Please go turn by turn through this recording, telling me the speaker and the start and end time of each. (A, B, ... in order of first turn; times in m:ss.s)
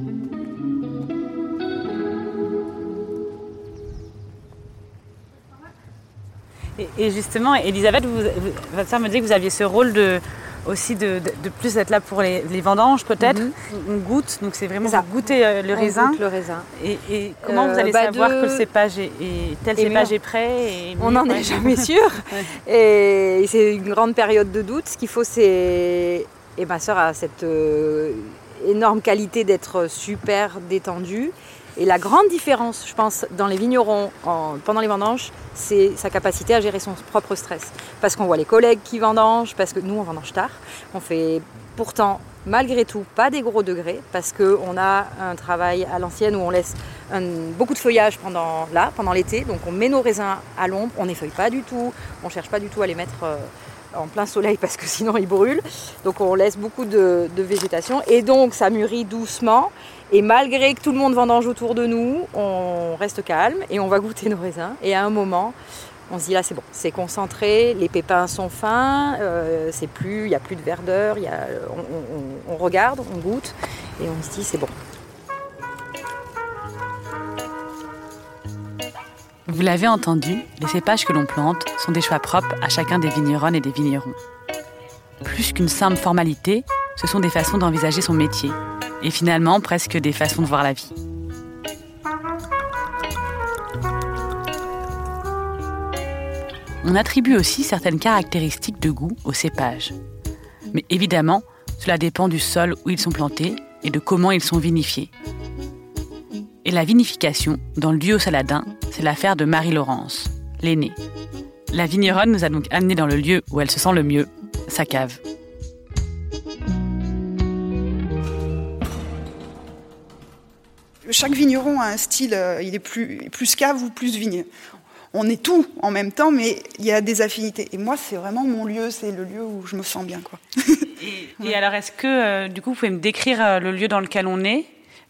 0:06.8-0:16.2 A
0:13.2-0:13.5 B
0:14.8-0:16.7 B
0:16.8-0:22.5 A
0:17.4-0:18.7 B
0:19.8-0:20.2 B
0:21.0-1:05.6 B
1:06.1-1:14.8 B
1:19.4-1:24.2 A
1:25.2-1:30.9 A
1:36.8-1:39.9 A
1:40.7-1:45.1 A
1:46.6-1:51.0 A
1:51.7-1:55.2 A
2:01.1-2:04.5 C
2:05.1-2:11.6 C
2:11.0-2:14.7 A